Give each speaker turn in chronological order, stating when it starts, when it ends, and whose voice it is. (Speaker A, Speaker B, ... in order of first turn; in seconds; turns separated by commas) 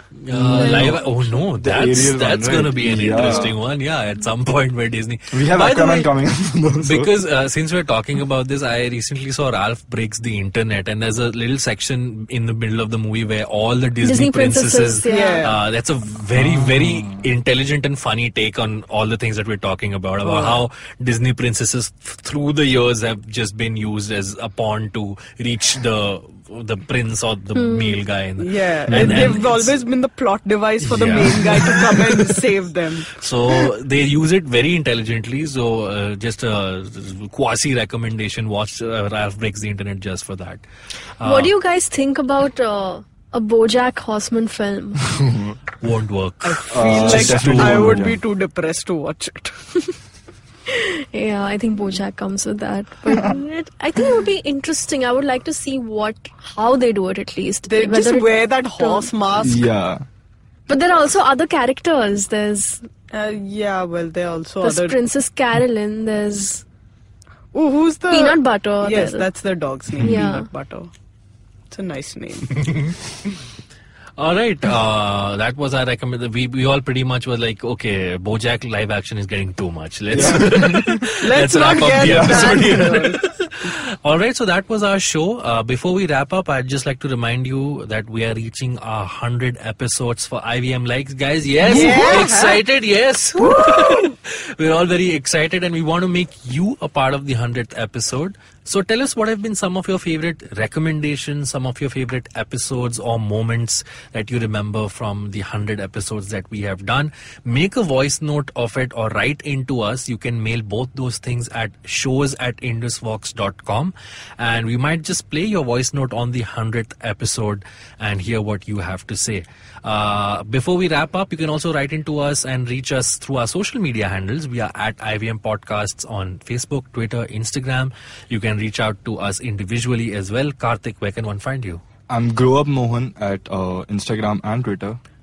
Speaker A: 0.2-6.1, Speaker B: 0.3-3.5, Speaker C: 0.5-1.0, Speaker B: 5.3-7.1, Speaker A: 6.8-29.7, Speaker C: 14.0-15.4, Speaker D: 15.1-15.6, Speaker B: 16.3-17.2, Speaker D: 20.2-20.6, Speaker C: 27.6-28.0, Speaker D: 28.4-33.7, Speaker B: 28.9-29.4, Speaker A: 30.8-32.3, Speaker A: 33.1-40.6, Speaker A: 41.2-41.5, Speaker C: 41.2-45.1, Speaker B: 45.2-45.5, Speaker A: 45.8-48.1, Speaker D: 46.4-49.6, Speaker B: 46.7-48.2, Speaker C: 50.7-59.1, Speaker D: 57.7-59.7, Speaker B: 59.4-60.0, Speaker C: 60.7-62.8, Speaker D: 63.1-65.0, Speaker C: 64.6-66.6, Speaker D: 67.5-70.9, Speaker C: 68.1-69.3, Speaker B: 69.9-70.3, Speaker C: 70.0-70.5, Speaker D: 71.7-72.6, Speaker A: 72.5-73.0, Speaker A: 74.2-131.8, Speaker B: 80.1-81.1, Speaker D: 81.2-83.2, Speaker B: 82.0-82.7, Speaker D: 91.6-92.6, Speaker D: 93.4-94.1, Speaker B: 132.1-135.0